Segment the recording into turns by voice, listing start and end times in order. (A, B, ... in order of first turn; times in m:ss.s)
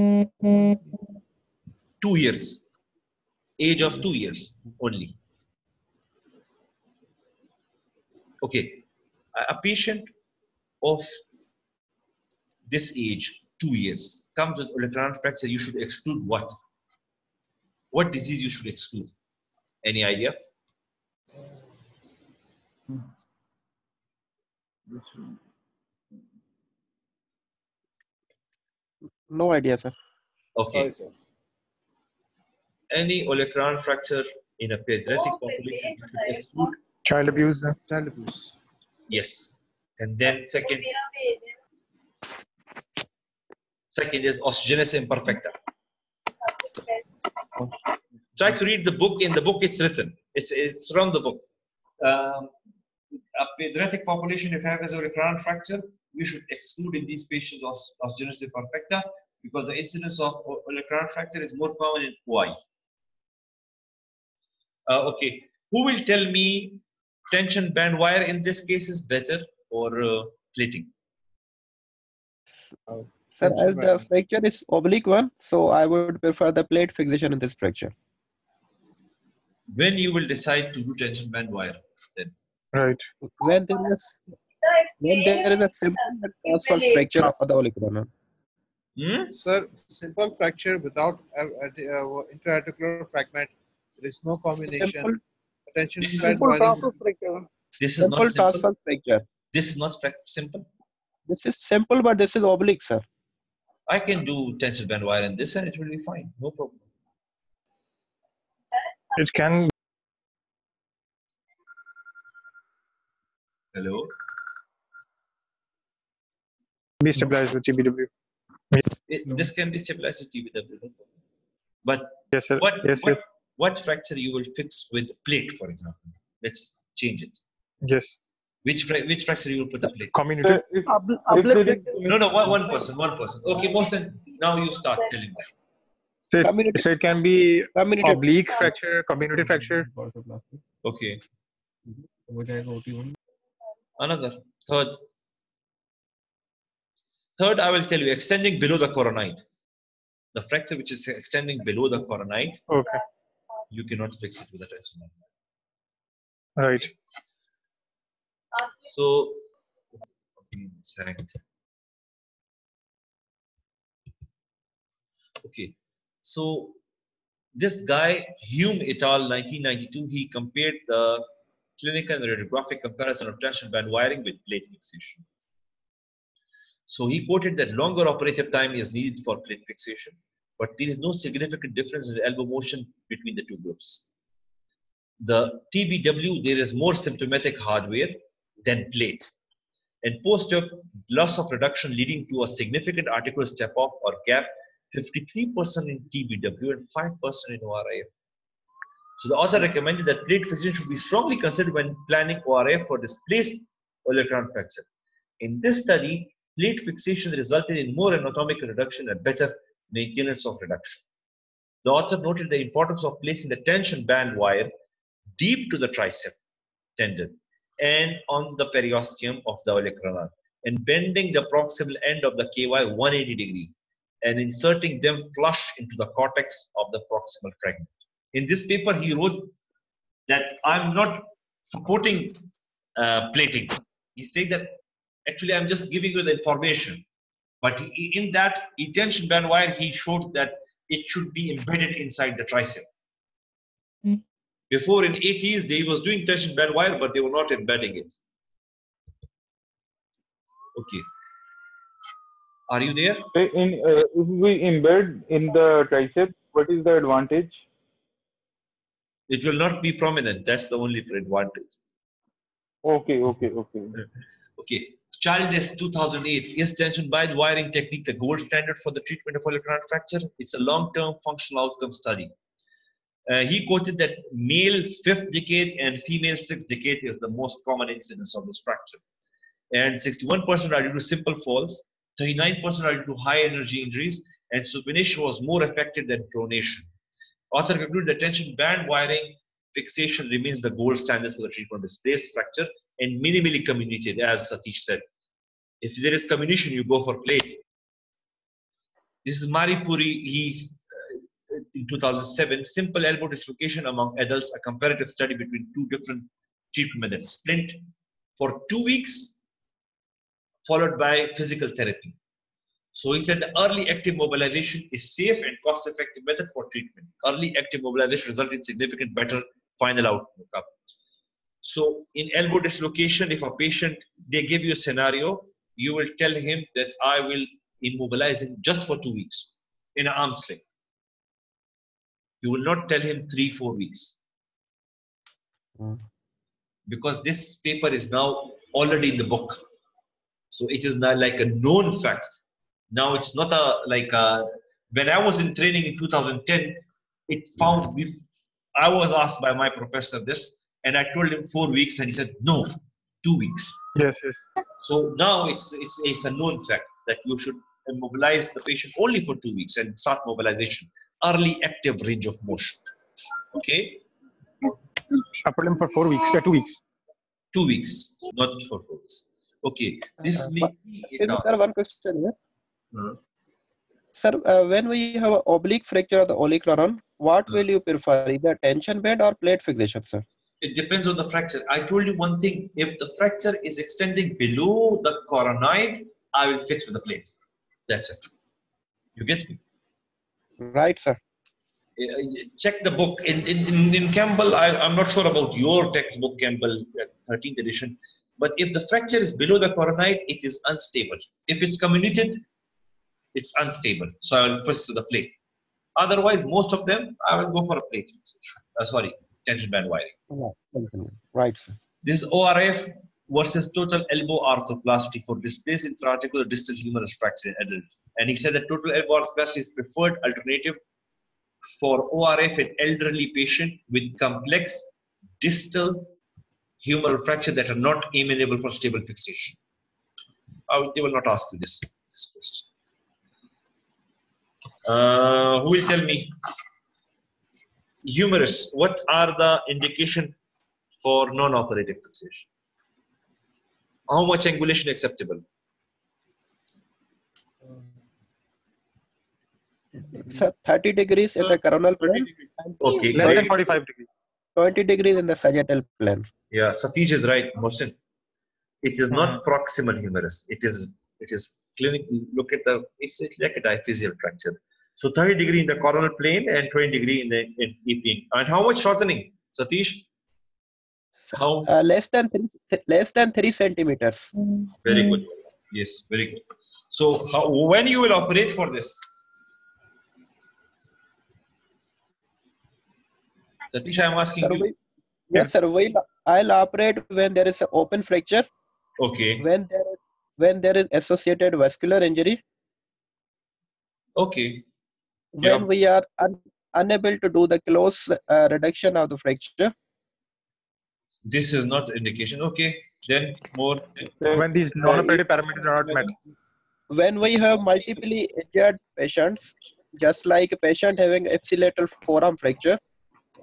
0:02.0-0:02.6 A
0:03.6-0:05.2 A
0:08.4-0:08.8 A
0:09.4-0:10.1 A
0:10.8-0:11.2 A
0:12.7-0:16.6 A
0:17.9-0:19.1 A
0:19.8-0:20.4 A
0:29.3-0:29.9 B
0:30.6-0:30.9 A
0:30.7-0:31.1 C
0:32.9-0:36.8 A
0:37.0-0:37.8 D
0:37.8-0:38.5 C
0:39.1-0:40.9 A
0:43.9-0:45.6 A
0:48.4-0:51.4 A
0:52.0-0:52.5 A
0:53.4-1:02.6 A
1:04.9-1:10.9 A
1:12.9-1:14.0 C
1:13.4-1:17.9 B
1:19.7-1:22.4 A
1:22.7-1:23.1 D
1:23.2-1:24.3 B
1:25.0-1:28.1 B
1:29.0-1:29.3 A
1:29.3-1:35.2 C
1:34.8-1:35.2 B
1:35.7-1:37.0 C
1:36.0-1:36.3 A
1:36.2-1:37.5 E
1:37.8-1:38.6 A
1:38.0-1:39.3 B
1:39.5-1:40.7 A
1:41.3-1:43.0 B
1:43.9-1:46.8 A
1:49.1-1:49.7 D
1:53.7-1:54.1 A
1:57.0-1:58.1 D
1:59.1-2:01.0 A
2:01.8-2:07.4 A
2:02.3-2:03.2 D
2:07.8-2:08.2 D
2:08.6-2:10.2 A
2:10.1-2:10.6 D
2:10.4-2:12.5 F
2:10.9-2:11.9 E
2:12.1-2:15.5 A
2:16.3-2:19.9 D
2:16.4-2:16.9 B
2:17.8-2:18.7 B
2:20.8-2:21.2 A
2:24.0-2:25.0 A
2:27.4-2:29.4 A
2:30.3-2:32.7 A
2:32.7-2:33.0 D
2:33.7-2:35.2 A
2:36.6-2:36.9 D
2:38.8-2:39.4 A
2:40.4-2:41.4 A
2:45.4-2:46.8 A
2:47.6-2:51.2 A
2:51.8-2:55.2 A
2:56.9-3:04.1 A
3:05.2-3:09.3 A
3:10.0-3:18.1 A
3:19.2-3:24.9 A
3:25.4-3:31.0 A
3:31.8-3:34.7 A
3:35.4-3:36.4 A
3:37.0-3:49.5 A
3:50.3-3:52.4 A
3:53.0-3:57.0 A
3:57.6-4:02.9 A
4:04.7-4:08.2 A
4:10.8-4:11.1 A
4:12.7-4:13.3 A
4:13.3-4:17.6 F
4:19.3-4:21.8 A
4:22.8-4:23.9 F
4:24.6-4:32.3 A
4:33.3-4:39.0 A
4:39.7-4:46.9 A
4:47.5-4:55.0 A
4:55.8-4:57.6 A
4:59.2-5:07.8 A
5:08.4-5:09.4 A
5:10.6-5:12.2 A
5:13.0-5:20.8 A
5:21.6-5:30.6 A
5:32.4-5:34.2 A
5:36.9-5:39.6 A
5:40.5-5:42.4 A
5:42.9-5:48.2 A
5:48.8-5:53.8 A
5:54.0-5:54.4 D
5:54.8-6:02.9 A
6:03.5-6:04.0 A
6:05.4-6:06.8 D
6:07.5-6:11.5 A
6:10.2-6:12.3 B
6:14.2-6:20.2 B
6:20.6-6:27.3 A
6:27.9-6:28.3 A
6:29.2-6:29.6 A
6:30.6-6:31.2 B
6:32.0-6:42.4 A
6:43.4-6:45.4 A
6:46.0-6:50.1 A
6:50.3-6:51.8 B
6:52.0-7:00.8 A
7:01.8-7:04.9 A
7:05.4-7:06.1 A
7:06.8-7:09.6 A
7:10.7-7:12.7 A
7:14.8-7:16.3 A
7:18.0-7:20.4 A
7:21.0-7:22.5 A
7:24.1-7:25.4 A
7:30.1-7:33.6 B
7:32.1-7:32.5 C
7:32.8-7:33.6 A
7:33.0-7:34.1 D
7:34.6-7:36.3 B
7:36.5-7:38.0 A
7:38.8-7:50.0 A
7:39.1-7:39.4 D
7:51.2-7:54.3 B
7:51.3-7:51.7 A
7:54.8-7:59.0 A
8:03.7-8:04.7 A
8:04.3-8:04.8 B
8:05.3-8:08.5 B
8:09.0-8:09.4 A
8:09.4-8:12.4 B
8:14.2-8:14.6 A
8:15.4-8:19.7 B
8:21.3-8:24.1 A
8:24.2-8:25.3 F
8:24.4-8:26.2 D
8:26.9-8:32.8 B